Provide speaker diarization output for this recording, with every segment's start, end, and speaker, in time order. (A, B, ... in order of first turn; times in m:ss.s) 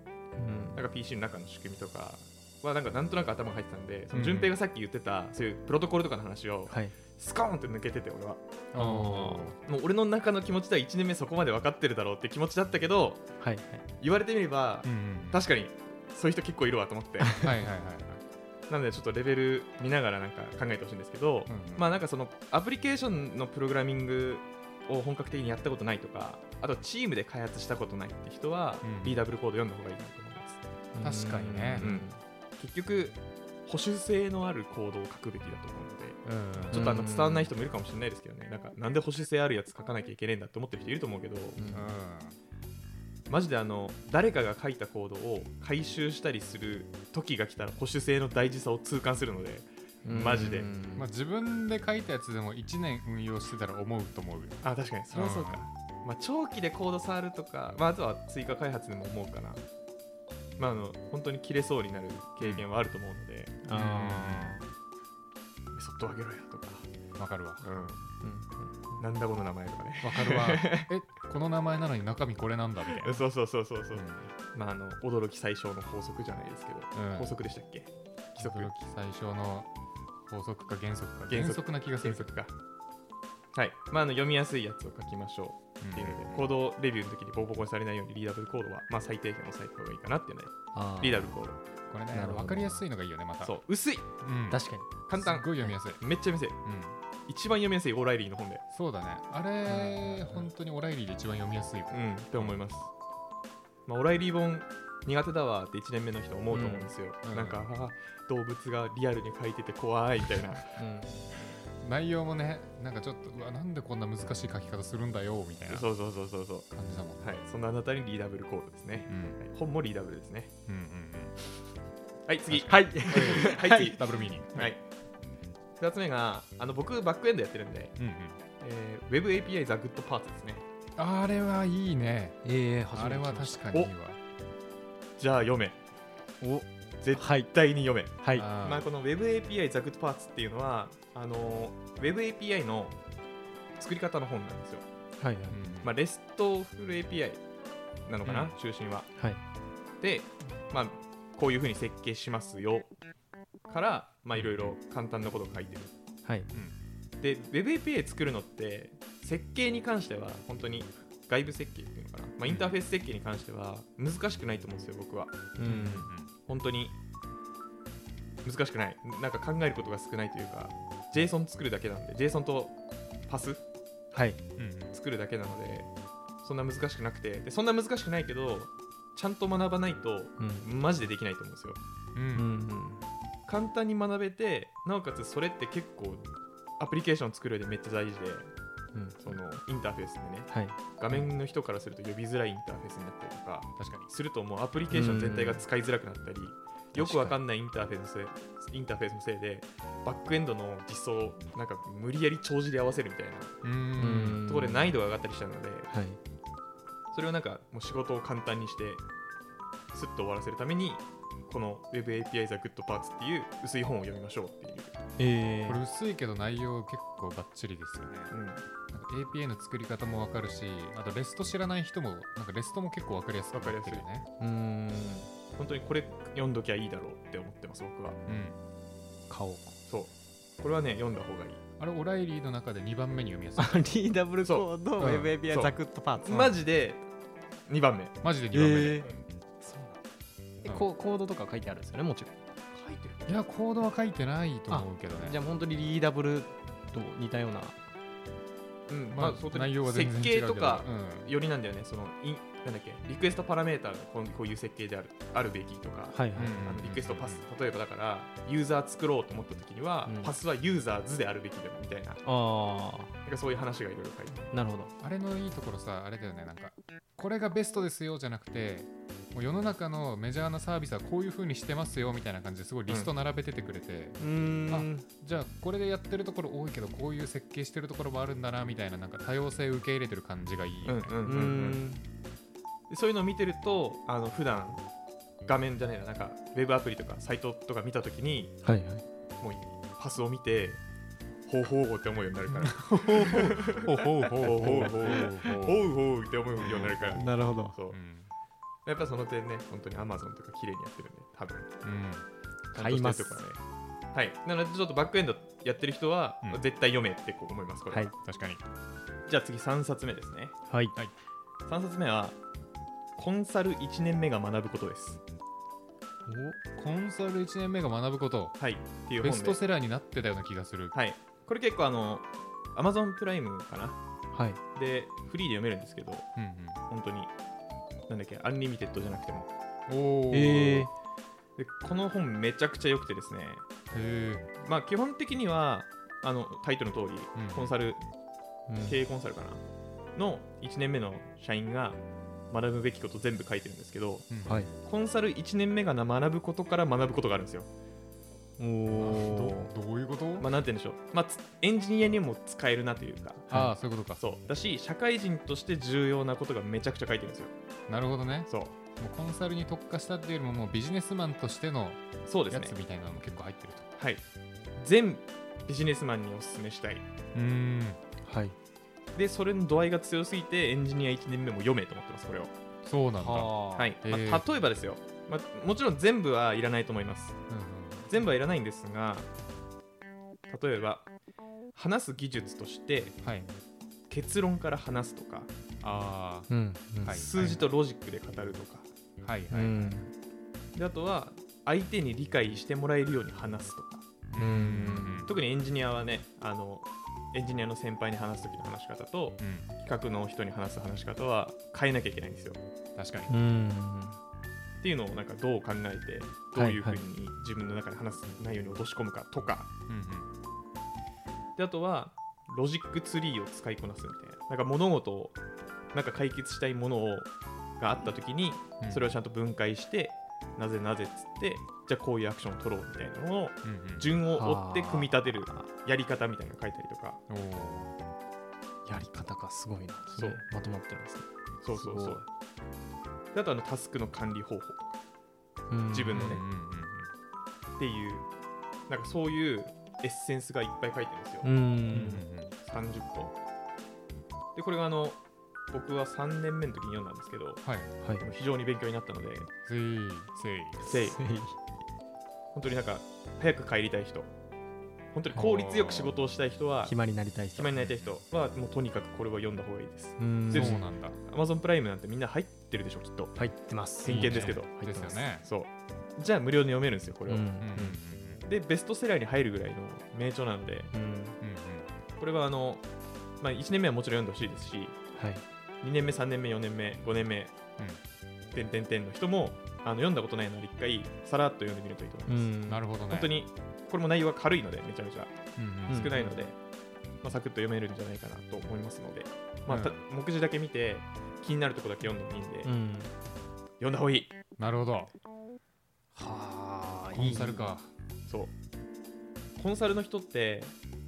0:00.4-0:00.8 A
0:00.7-0:08.4 B
0:04.1-0:04.5 C
0:06.7-0:06.9 A
0:08.7-0:09.6 C
0:08.8-0:09.5 A
0:09.6-0:13.2 B
0:13.4-0:13.8 A
0:14.0-0:17.4 B
0:14.8-0:15.4 C
0:17.4-0:18.2 C
0:18.7-0:30.6 B
0:21.5-0:21.9 C
0:28.8-0:29.2 C
0:30.9-0:32.2 A
0:31.0-0:31.9 C
0:31.8-0:41.6 B
0:36.2-0:37.0 C
0:36.7-0:37.5 A
0:41.6-0:41.9 A
0:41.7-0:42.4 C
0:43.3-0:50.7 B
0:50.0-0:51.1 A
0:51.0-0:55.7 C
0:54.6-0:59.6 B
1:00.6-1:03.6 B
1:03.6-1:04.6 A
1:03.7-1:04.6 C
1:05.7-1:06.9 B
1:07.2-1:07.7 C
1:07.6-1:08.0 B
1:08.2-1:09.0 A
1:09.0-1:10.9 B
1:10.0-1:13.2 C
1:13.0-1:18.7 B
1:13.9-1:14.3 C
1:16.9-1:17.3 C
1:18.4-1:19.7 C
1:20.3-1:22.3 C
1:21.3-1:22.5 B
1:23.5-1:31.6 B
1:25.8-1:26.4 C
1:30.7-1:31.4 A
1:31.9-1:33.6 C
1:32.1-1:32.8 A
1:33.4-1:34.1 B
1:34.1-1:36.0 C
1:34.5-1:34.9 A
1:35.1-1:36.6 B
1:36.6-1:37.0 C
1:37.3-1:38.6 B
1:38.7-1:42.6 C
1:39.8-1:40.1 A
1:41.9-1:42.9 B
1:43.8-1:50.8 B
1:46.5-1:47.7 C
1:50.8-1:51.5 A
1:51.8-1:55.9 C
1:55.7-2:00.5 B
1:56.7-1:57.2 C
1:59.1-1:59.4 C
2:00.6-2:01.4 C
2:02.2-2:04.0 B
2:02.5-2:04.7 C
2:02.7-2:04.0 A
2:04.5-2:04.8 B
2:05.8-2:07.9 B
2:08.0-2:08.4 C
2:08.6-2:10.6 B
2:11.0-2:14.2 C
2:12.4-2:13.7 A
2:15.2-2:15.8 B
2:16.4-2:17.5 A
2:17.0-2:23.0 B
2:18.2-2:18.5 A
2:18.3-2:18.9 C
2:23.8-2:24.8 B
2:25.2-2:25.6 A
2:25.5-2:25.9 C
2:25.8-2:27.4 B
2:28.0-2:29.1 B
2:28.2-2:28.6 C
2:30.0-2:32.9 B
2:33.7-2:35.9 B
2:34.3-2:34.7 C
2:37.2-2:45.6 B
2:42.4-2:42.8 C
2:45.6-2:46.1 A
2:45.6-2:46.3 C
2:46.4-2:47.0 B
2:48.4-2:52.8 B
2:53.3-2:53.6 B
2:54.1-2:54.4 A
2:54.6-2:55.0 C
2:54.9-2:55.9 B
2:56.4-3:01.8 B
3:00.4-3:00.6 A
3:02.1-3:02.5 C
3:02.3-3:03.0 A
3:03.5-3:06.2 B
3:06.8-3:08.5 B
3:08.9-3:09.2 A
3:09.2-3:23.6 B
3:10.5-3:10.8 A
3:13.8-3:14.1 C
3:14.9-3:15.6 A
3:16.9-3:17.4 A
3:23.6-3:24.4 C
3:24.0-3:24.9 A
3:24.4-3:25.9 B
3:25.9-3:26.2 A
3:27.1-3:29.0 B
3:29.9-3:34.9 B
3:35.2-3:35.8 A
3:35.6-3:38.3 C
3:38.3-3:38.6 B
3:38.9-3:44.3 C
3:43.5-3:44.0 B
3:44.4-3:45.3 A
3:45.5-3:48.2 B
3:48.2-3:48.6 C
3:49.3-3:49.8 A
3:49.9-3:51.6 B
3:51.8-3:53.8 C
3:53.6-3:56.3 A
3:54.4-3:54.7 B
3:55.0-3:55.3 C
3:55.5-3:57.0 B
3:56.3-3:56.6 C
3:57.7-3:58.1 B
3:58.2-3:59.1 C
3:58.5-3:59.1 A
3:59.6-4:00.0 A
4:00.6-4:02.4 A
4:02.7-4:03.3 B
4:03.2-4:05.4 C
4:04.7-4:07.8 A
4:08.9-4:22.2 B
4:09.1-4:11.3 C
4:16.1-4:16.7 A
4:16.3-4:17.4 C
4:20.1-4:20.3 A
4:22.2-4:23.1 A
4:23.2-4:24.5 B
4:24.5-4:24.9 A
4:25.0-4:41.1 C
4:34.2-4:35.0 A
4:40.8-4:41.8 B
4:41.2-4:42.0 A
4:42.9-4:44.8 B
4:45.4-4:48.6 B
4:48.6-4:49.0 A
4:49.4-4:50.8 B
4:51.4-4:53.8 B
4:52.5-4:55.9 C
4:52.7-4:55.5 A
4:54.4-4:58.0 B
4:56.6-4:57.2 C
4:57.1-4:57.7 A
4:57.9-4:58.3 C
4:58.8-5:01.7 B
5:01.8-5:02.2 C
5:02.7-5:03.6 B
5:02.7-5:03.4 A
5:04.1-5:08.1 B
5:08.2-5:08.6 C
5:09.3-5:10.6 B
5:10.7-5:11.0 A
5:11.7-5:12.4 B
5:13.2-5:15.2 B
5:16.3-5:16.6 A
5:16.8-5:18.6 C
5:18.6-5:19.6 B
5:19.2-5:20.9 C
5:20.9-5:24.0 B
5:24.3-5:24.6 A
5:24.7-5:26.3 B
5:26.4-5:26.8 C
5:26.9-5:27.3 B
5:28.1-5:29.5 B
5:29.9-5:30.9 C
5:30.3-5:30.9 A
5:31.6-5:33.6 B
5:33.9-5:34.5 C
5:34.6-5:38.0 B
5:37.3-5:37.7 C
5:38.7-5:39.0 A
5:38.8-5:39.6 B
5:40.1-5:44.3 B
5:44.3-5:44.7 C
5:44.8-5:47.7 B
5:48.6-5:49.7 A
5:48.9-5:50.5 C
5:50.4-5:53.5 B
5:53.5-5:54.2 C
5:54.2-5:57.5 B
5:57.9-6:03.9 C
5:58.5-5:58.7 B
6:02.2-6:02.7 B
6:04.0-6:04.2 B
6:04.8-6:07.0 B
6:07.3-6:08.0 C
6:08.2-6:08.5 A
6:09.1-6:12.5 B
6:12.8-6:14.4 C
6:13.2-6:13.9 A
6:13.8-6:17.4 B
6:17.5-6:18.1 C
6:18.1-6:19.3 B
6:20.5-6:21.1 B
6:21.7-6:23.2 B
6:23.2-6:23.5 C
6:24.1-6:25.5 B
6:25.8-6:26.5 C
6:26.5-6:27.3 A
6:27.0-6:27.7 C
6:27.2-6:28.9 B
6:29.2-6:30.1 C
6:29.5-6:30.1 A
6:30.7-6:34.0 B
6:34.3-6:35.3 C
6:34.4-6:35.3 A
6:35.2-6:42.6 B
6:39.4-6:39.7 C
6:43.0-6:43.3 C
6:43.3-6:44.2 A
6:44.8-6:49.7 B
6:46.5-6:47.0 A
6:49.9-6:50.3 C
6:51.6-6:55.4 B
6:55.9-7:07.2 B
6:58.8-6:59.1 C
7:03.6-7:04.1 C
7:04.3-7:05.7 A
7:07.3-7:07.9 C
7:08.8-7:12.2 A
7:10.1-7:10.4 B
7:11.6-7:12.2 B
7:13.3-7:14.8 B
7:15.7-7:16.4 A
7:15.9-7:16.4 B
7:16.1-7:17.1 C
7:17.8-7:18.2 B
7:18.9-7:21.5 B
7:21.4-7:22.2 A
7:21.9-7:22.5 C
7:22.6-7:23.3 B
7:24.5-7:27.6 B
7:27.6-7:27.9 C
7:28.2-7:29.5 B
7:29.6-7:30.8 C
7:30.8-7:31.6 A
7:30.9-7:31.2 B
7:32.5-7:34.3 B
7:35.1-7:36.9 B
7:35.3-7:36.2 C
7:36.8-7:37.7 A
7:37.5-7:43.3 B
7:37.8-7:38.1 C
7:40.2-7:40.8 A
7:40.5-7:41.2 C
7:43.4-7:45.2 A
7:44.0-7:44.7 B
7:44.0-7:45.4 C
7:45.4-7:47.5 B
7:47.3-7:48.0 A
7:47.6-7:48.4 C
7:48.4-7:50.9 B
7:50.9-7:51.4 A
7:51.4-7:51.9 C
7:52.2-7:52.8 B
7:53.4-7:55.0 B
7:55.1-7:55.4 A
7:55.8-7:57.5 B
7:58.5-8:02.5 B
8:02.3-8:02.8 A
8:02.7-8:03.3 C
8:03.1-8:06.6 B
8:05.6-8:06.1 C
8:05.9-8:06.4 A
8:07.2-8:12.7 B
8:09.7-8:10.0 C
8:12.6-8:13.1 A
8:13.8-8:14.3 B
8:14.6-8:15.1 C
8:16.2-8:17.7 A
8:17.1-8:17.9 C
8:18.3-8:18.5 B
8:19.6-8:20.7 B